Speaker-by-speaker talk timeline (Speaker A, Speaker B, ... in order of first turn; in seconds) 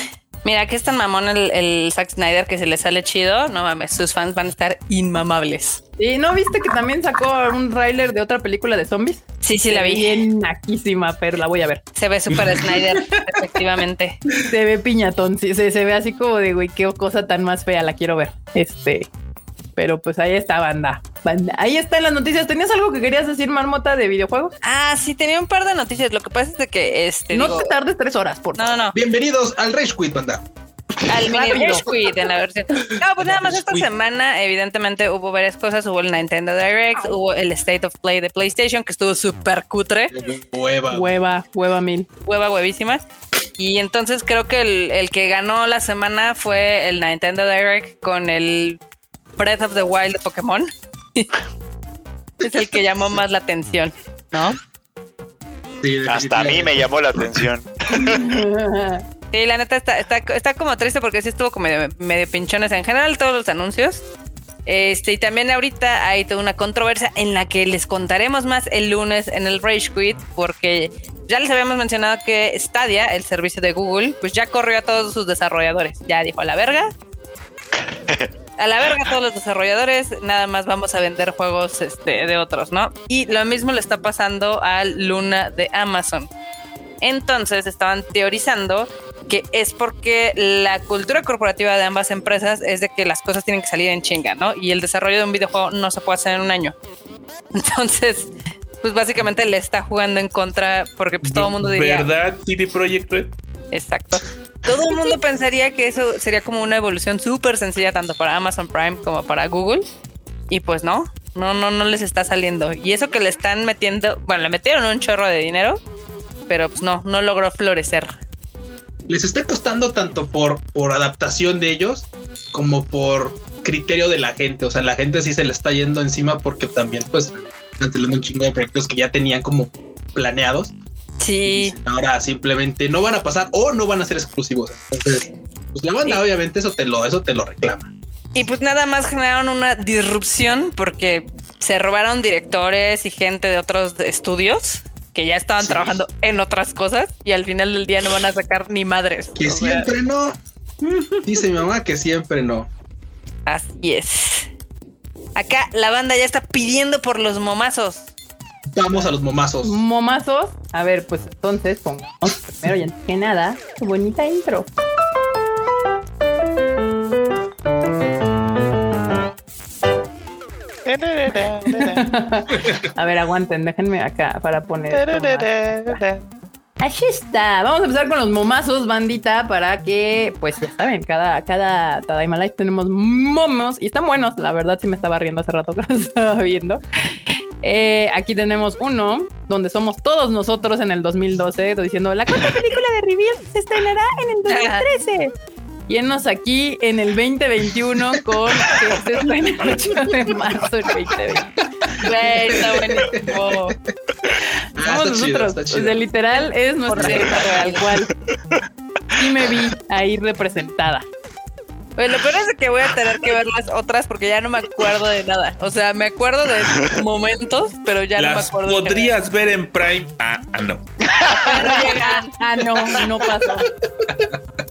Speaker A: 0.4-5.8, 9.4-10.2, 12.0-14.2, 24.6-27.7, 28.6-28.9, 31.1-40.1, 42.2-43.0, 43.6-48.8, 49.4-51.3, 52.4-54.6, 59.3-64.0, 64.7-76.9, 78.6-86.3, 87.0-96.8, 97.5-102.1, 103.7-109.9, 110.5-115.8, 116.5-118.2, 131.2-131.8, 138.3-149.9, 150.9-151.2, 153.5-154.5, 155.3-158.1, 194.5-194.9, 202.0-203.8, 206.9-207.9, 212.0-219.2, 221.3-222.3
Speaker B: 6.0-11.8, 14.4-19.1, 19.8-24.6, 27.3-28.9, 31.3-31.9, 40.9-42.1, 58.0-59.1, 159.6-164.7, 171.7-176.0, 176.8-186.8, 187.6-195.3, 195.9-201.5, 204.8-208.1, 209.1-211.1, 221.5-223.7
Speaker C: 28.9-30.4, 31.0-32.0, 33.2-33.9, 40.1-41.1, 55.8-56.9, 119.1-130.7, 131.5-137.9, 149.4-150.4, 151.2-152.7, 158.7-159.8, 198.5-199.0, 201.8-203.7, 204.8-206.0, 207.0-207.4, 223.3-224.4
Speaker D: 56.1-58.4, 77.8-78.3, 170.8-172.1, 174.9-176.2, 208.3-208.6, 221.1-221.7
Speaker E: 101.3-103.3, 218.2-220.9